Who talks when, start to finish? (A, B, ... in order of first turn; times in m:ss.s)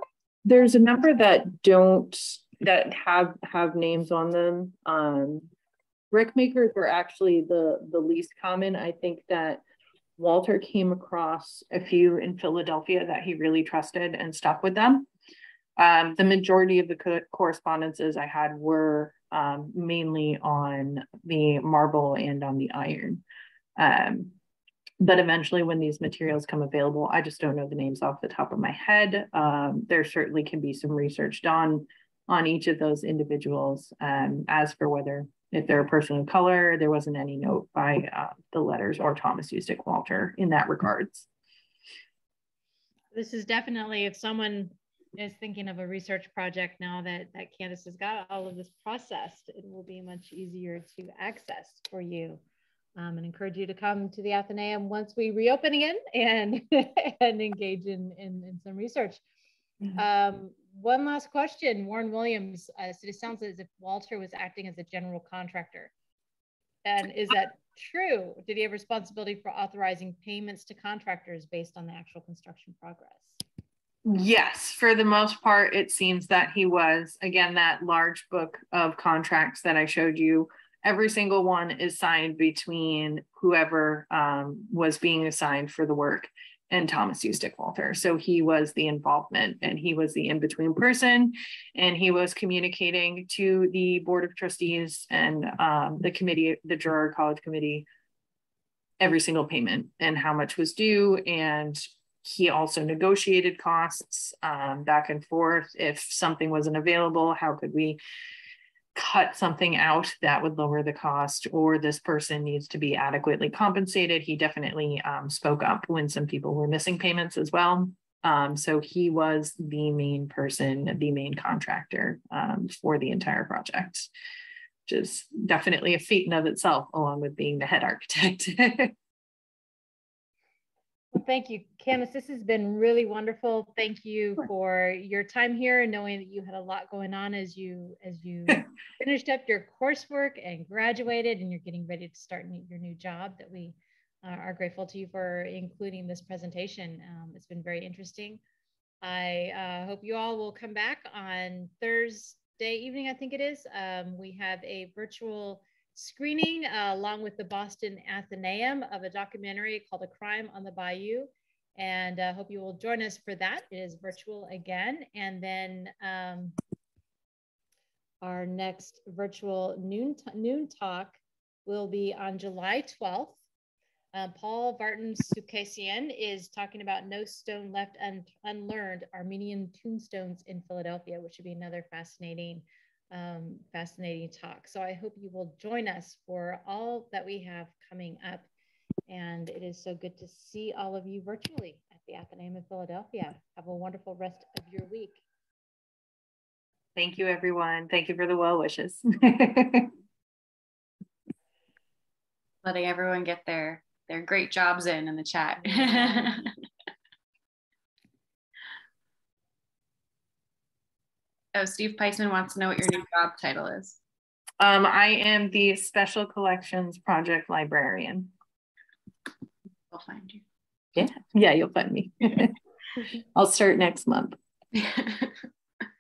0:00.4-0:05.5 A
0:06.1-0:09.6 A
0:10.2-0:15.1 A
0:15.8-0:23.2 A
0:23.8-0:24.4 A
0:25.0-0:41.3 A
0:43.1-0:52.4 B
0:53.0-0:59.2 B
0:59.9-1:05.9 B
1:06.8-1:13.4 B
1:14.0-1:37.9 A
1:39.0-1:48.0 A
1:49.0-2:04.1 A
2:04.9-2:08.9 A
2:11.1-2:28.4 B
2:29.0-2:46.6 B
2:48.2-2:53.4 B
2:54.1-3:08.5 B
3:09.1-3:15.2 B
3:17.0-3:19.9 A
3:22.6-3:26.5 C
3:31.5-3:34.0 C
3:34.6-3:38.3 A
3:39.9-3:40.4 C
3:41.0-3:42.5 A
3:43.4-3:44.4 A
3:44.7-3:45.4 C